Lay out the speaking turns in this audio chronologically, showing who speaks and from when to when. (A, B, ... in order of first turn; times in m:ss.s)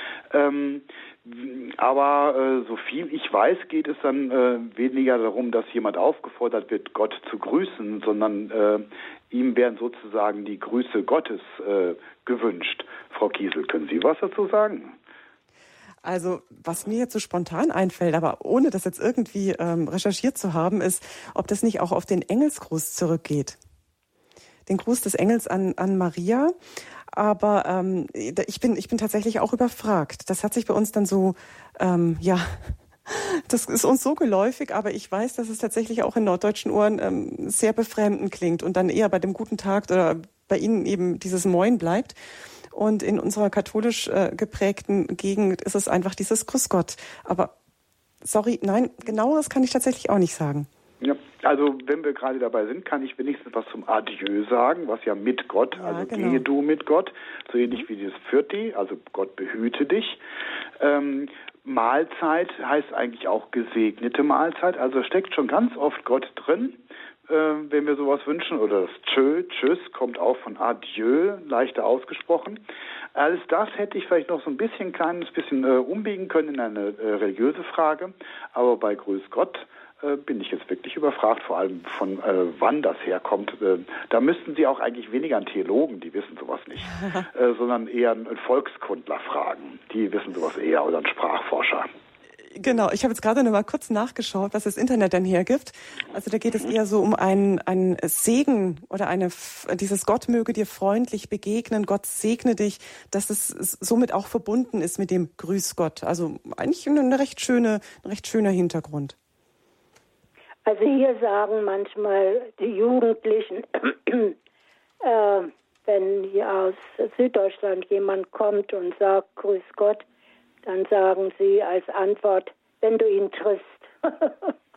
0:00.3-0:15.0 A
0:16.0-0:23.6 B
0:24.7-0:26.5 B
0:27.1-0:42.2 B
0:42.7-0:47.5 B
0:48.2-0:50.7 B
0:51.0-1:00.2 A
0:55.7-0:56.4 B
1:00.8-1:31.9 A
1:26.9-1:27.2 B
1:32.5-1:49.2 B
1:50.6-1:54.4 C
1:55.0-2:00.0 C
2:00.6-2:04.3 C